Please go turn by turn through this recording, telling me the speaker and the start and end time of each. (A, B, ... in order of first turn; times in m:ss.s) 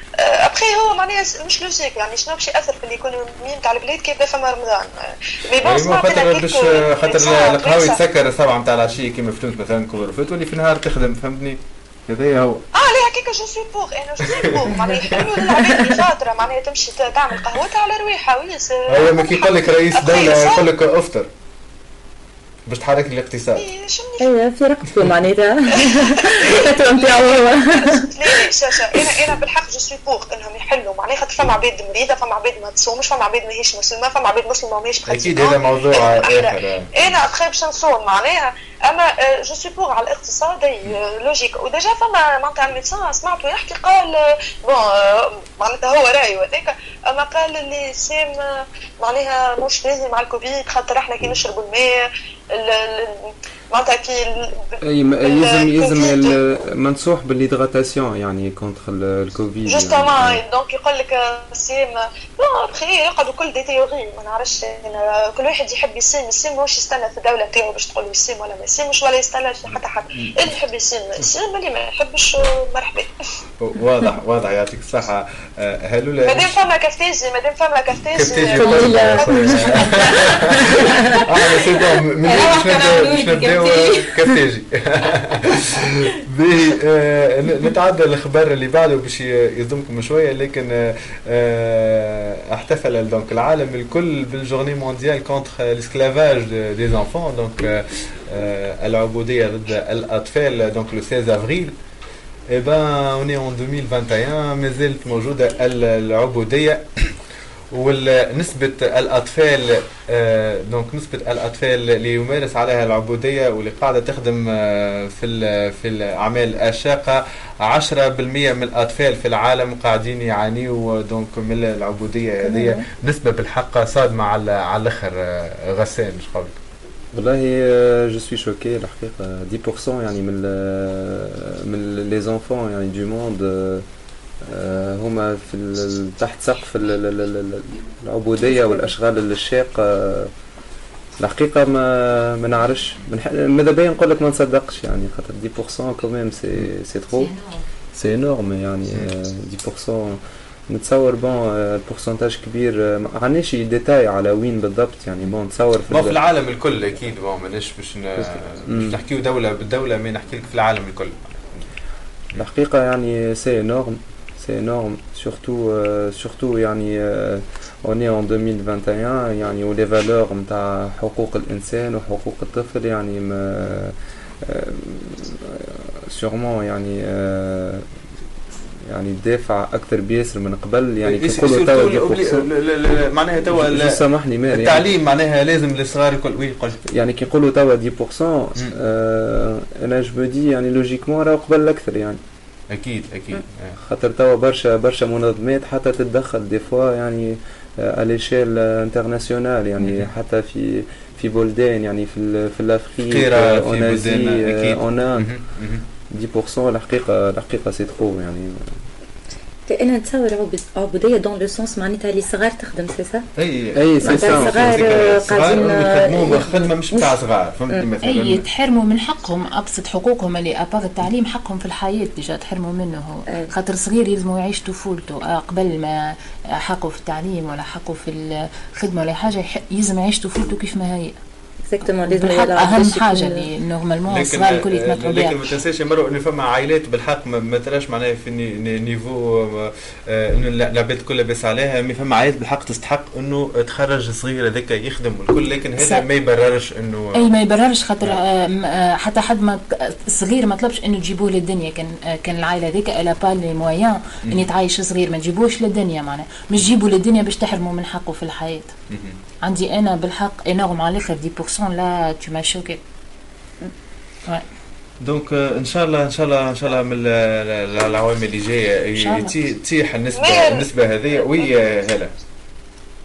0:00.2-0:08.0 A
0:05.6-0:12.6 B
0:12.7-0:20.6 A
0:14.2-0:15.3 B
0:18.9-0:21.3 B
0:22.7-0:23.6 B
0:23.6-0:24.3 A
0:24.2-0:28.4 C
0:25.7-0:52.0 A
0:35.1-0:37.1 B
0:52.5-0:56.4 A
0:54.8-1:00.4 D
0:59.6-1:13.1 A
1:09.7-1:10.5 B
1:13.6-1:16.6 B
1:16.2-1:19.6 A
1:18.1-1:20.5 B
1:18.6-1:19.8 C
1:19.8-1:21.6 E
1:21.2-1:25.7 B
1:22.2-1:24.1 E
1:26.2-1:41.7 B
1:42.5-1:46.9 B
1:47.7-2:06.6 B
2:02.5-2:02.8 C
2:07.1-2:13.8 D
2:14.4-2:20.3 D
2:18.4-2:18.9 C
2:21.2-2:27.3 D
2:27.9-2:36.2 D
2:35.9-2:41.6 B
2:38.2-2:39.0 D
2:42.4-2:53.9 D
2:54.4-2:57.8 D
2:58.9-3:02.4 D
3:01.0-3:06.8 B
3:03.5-3:04.9 D
3:06.9-3:12.2 D
3:12.7-3:13.8 B
3:13.8-3:25.3 D
3:19.8-3:20.1 B
3:23.0-3:25.8 B
3:26.1-3:28.7 D
3:29.7-3:33.3 C
3:33.4-3:38.4 B
3:33.8-3:35.2 D
3:34.0-3:37.1 C
3:38.0-3:51.2 E
3:51.7-3:53.5 C
3:52.0-3:55.4 E
3:54.1-4:07.3 B
4:05.8-4:06.0 E
4:07.1-4:18.7 E
4:18.9-4:19.2 B
4:19.4-4:22.8 E
4:25.0-4:32.1 B
4:29.0-4:29.3 E
4:30.2-4:30.6 A